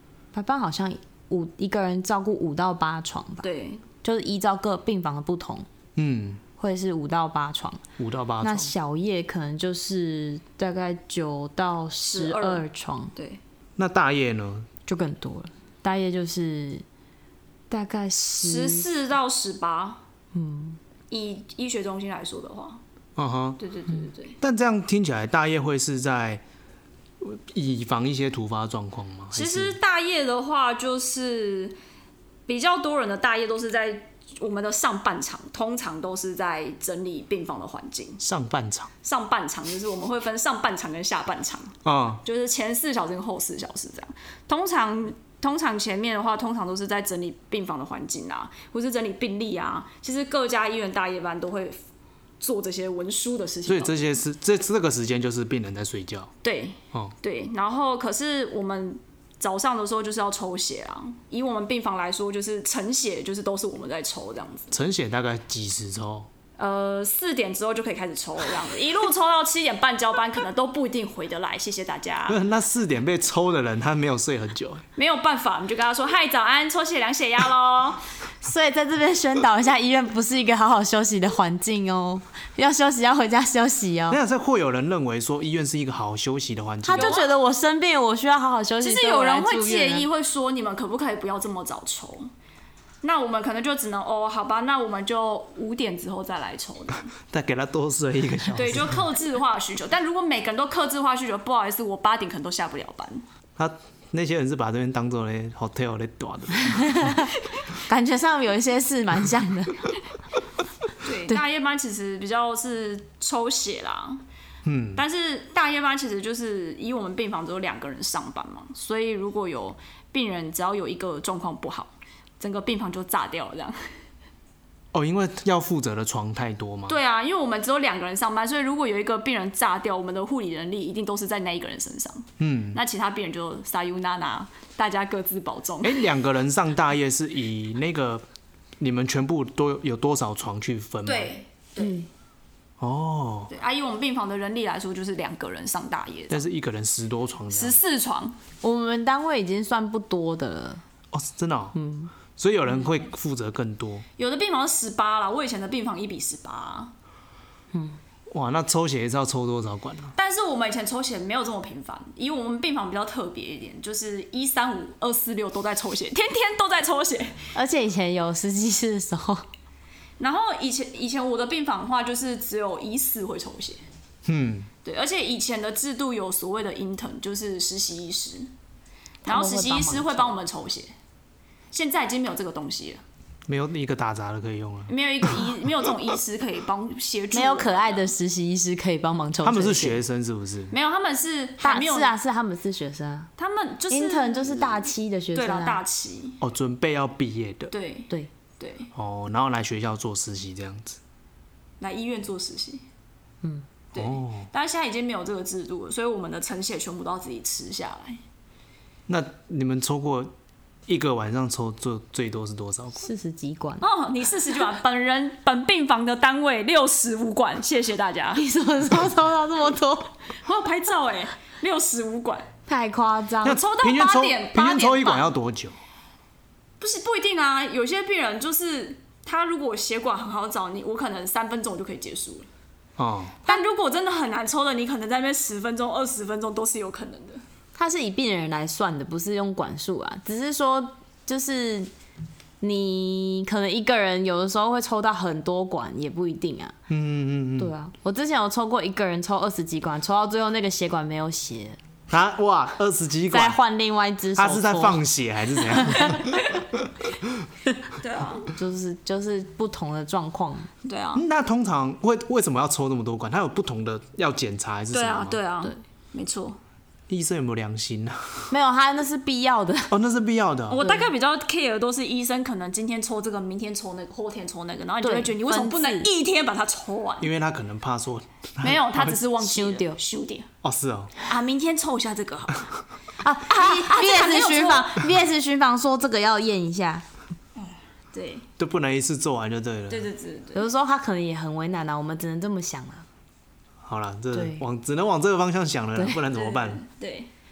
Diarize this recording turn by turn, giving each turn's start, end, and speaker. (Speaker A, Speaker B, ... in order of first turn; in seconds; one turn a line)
Speaker A: 0.3-3.5
Speaker B: 3.4-3.8
Speaker A: 4.0-5.7
Speaker C: 6.0-6.4
Speaker A: 6.6-7.8
Speaker C: 8.0-8.7
Speaker A: 8.4-13.1
Speaker B: 12.0-12.6
Speaker B: 13.1-13.4
Speaker C: 13.8-14.7
Speaker A: 14.9-16.8
Speaker A: 17.7-18.9
Speaker B: 18.4-20.0
Speaker A: 20.3-20.8
Speaker B: 21.1-22.8
Speaker C: 23.2-23.6
Speaker B: 23.6-24.4
Speaker C: 24.4-26.4
Speaker C: 27.2-29.8
Speaker B: 29.3-31.8
Speaker B: 32.5-38.2
Speaker C: 38.2-38.9
Speaker B: 39.0-51.8
Speaker C: 41.8-42.2
Speaker B: 52.4-54.2
Speaker C: 53.7-56.3
Speaker B: 56.4-64.7
Speaker C: 64.7-66.3
Speaker B: 66.6-72.4
Speaker C: 72.3-74.8
Speaker B: 75.0-78.0
Speaker A: 78.4-84.2
Speaker C: 84.1-87.2
Speaker A: 86.8-90.0
Speaker B: 86.9-87.3
Speaker B: 88.8-92.3
Speaker B: 93.0-97.1
Speaker C: 97.3-99.0
Speaker B: 98.5-103.2
Speaker C: 103.6-107.2
Speaker A: 106.8-107.3
Speaker A: 107.9-109.9
Speaker B: 111.0-114.2
Speaker C: 114.6-115.0
Speaker B: 115.0-123.9
Speaker C: 124.9-127.0
Speaker B: 126.9-136.0
Speaker C: 132.4-132.8
Speaker C: 135.8-138.2
Speaker C: 138.8-141.3
Speaker B: 141.0-142.0
Speaker A: 141.8-142.1
Speaker C: 142.8-143.5
Speaker B: 143.5-146.5
Speaker C: 146.3-147.8
Speaker B: 147.5-148.3
Speaker A: 148.6-150.8
Speaker C: 151.1-151.8
Speaker A: 151.7-152.1
Speaker C: 152.4-154.1
Speaker B: 154.2-156.9
Speaker A: 157.7-158.0
Speaker C: 158.3-160.1
Speaker B: 160.2-167.4
Speaker A: 167.5-169.4
Speaker B: 170.2-173.8
Speaker C: 174.2-174.7
Speaker B: 174.8-178.5
Speaker B: 179.2-180.9
Speaker A: 179.2-180.3
Speaker B: 181.7-183.0
Speaker C: 183.5-185.5
Speaker B: 184.9-188.1
Speaker A: 187.3-190.0
Speaker C: 189.4-190.7
Speaker B: 190.7-192.1
Speaker A: 191.6-193.3
Speaker B: 193.4-196.4
Speaker A: 193.9-195.8
Speaker C: 196.4-197.7
Speaker B: 197.7-198.9
Speaker C: 198.9-201.0
Speaker B: 201.8-202.8
Speaker B: 203.9-208.2
Speaker C: 203.9-204.5
Speaker C: 209.1-210.3
Speaker C: 210.9-213.1
Speaker A: 213.0-213.8
Speaker B: 213.8-218.4
Speaker A: 218.4-220.1
Speaker B: 220.4-222.5
Speaker A: 222.7-223.6
Speaker C: 223.4-225.8
Speaker B: 223.4-225.3
Speaker B: 226.8-232.5
Speaker C: 233.0-233.3
Speaker B: 233.4-237.4
Speaker A: 237.8-241.9
Speaker A: 242.6-246.7
Speaker C: 246.9-247.7
Speaker A: 247.6-251.8
Speaker C: 252.1-253.6
Speaker A: 253.3-255.0
Speaker C: 254.3-257.5
Speaker B: 258.0-258.5
Speaker A: 258.5-260.7
Speaker B: 260.8-261.2
Speaker C: 261.1-265.4
Speaker B: 264.9-266.6
Speaker C: 267.1-268.5
Speaker A: 268.5-269.9
Speaker C: 269.9-270.8
Speaker B: 270.7-277.3
Speaker A: 270.8-271.1
Speaker A: 275.0-276.1
Speaker C: 277.2-279.2
Speaker B: 278.6-280.5
Speaker A: 279.4-280.0
Speaker C: 280.6-281.1
Speaker B: 281.2-282.7
Speaker A: 283.2-287.0
Speaker B: 283.5-285.0
Speaker B: 287.6-288.5
Speaker C: 288.6-290.1
Speaker B: 289.9-290.7
Speaker A: 290.5-293.1
Speaker C: 293.8-296.8
Speaker A: 294.3-294.6
Speaker B: 296.3-297.3